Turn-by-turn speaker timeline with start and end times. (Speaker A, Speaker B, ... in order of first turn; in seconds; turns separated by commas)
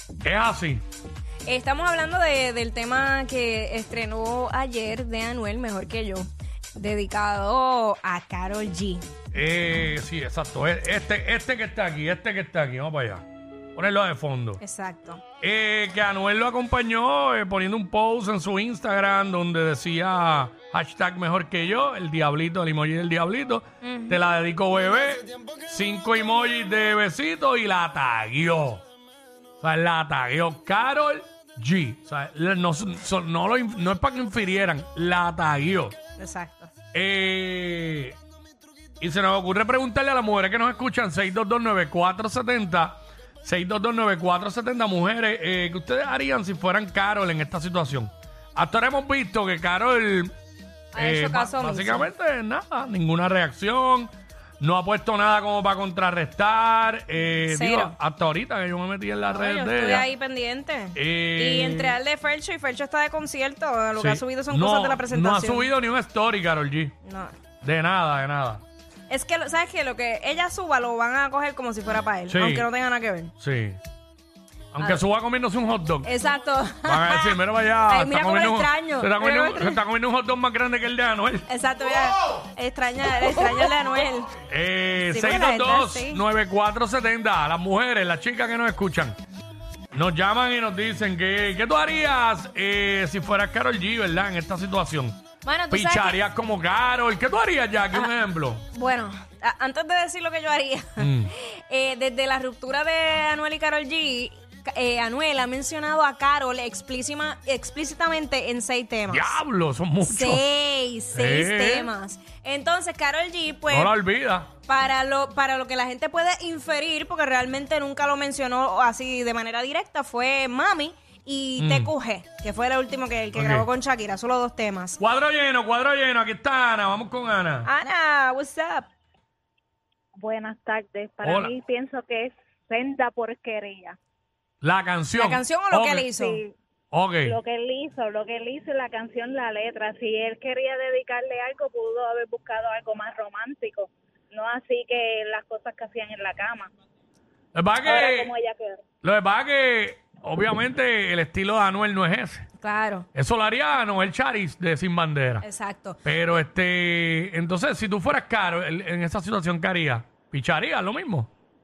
Speaker A: 0.2-0.8, Speaker B: 1.4-9.1, Speaker A: 9.3-13.2, Speaker A: 13.7-14.6, Speaker B: 14.6-15.2, Speaker A: 15.4-28.8, Speaker B: 23.8-24.2, Speaker A: 29.6-35.9, Speaker B: 36.2-36.7, Speaker A: 36.9-38.1, Speaker A: 39.0-50.3, Speaker B: 50.9-52.1, Speaker A: 51.0-60.1, Speaker B: 57.5-57.9, Speaker B: 59.3-65.7, Speaker A: 60.9-62.0, Speaker A: 64.0-66.9, Speaker B: 67.0-67.3, Speaker A: 67.6-68.6, Speaker B: 69.1-73.3, Speaker A: 72.3-72.7, Speaker A: 73.4-73.8, Speaker A: 74.7-76.1, Speaker B: 76.0-79.8, Speaker A: 76.8-81.5, Speaker B: 81.5-84.3, Speaker A: 84.5-89.2, Speaker B: 85.1-86.2, Speaker A: 89.9-95.2, Speaker B: 95.4-96.2, Speaker A: 95.7-98.6, Speaker B: 98.7-109.4, Speaker A: 101.0-101.3, Speaker A: 109.1-110.4, Speaker B: 110.0-113.9, Speaker A: 111.1-111.9, Speaker A: 113.7-114.5, Speaker B: 114.6-125.0, Speaker A: 121.6-121.9, Speaker A: 123.3-123.7, Speaker A: 125.0-127.7, Speaker B: 127.6-128.9, Speaker C: 130.2-133.9, Speaker A: 131.2-131.5, Speaker A: 134.6-136.1, Speaker B: 135.2-136.4, Speaker C: 136.1-136.5, Speaker A: 136.9-137.4, Speaker C: 137.2-146.7, Speaker A: 147.5-148.3, Speaker C: 147.8-148.8, Speaker A: 149.0-152.4, Speaker B: 152.6-153.1, Speaker A: 153.1-155.4, Speaker B: 155.4-156.0, Speaker A: 156.0-161.3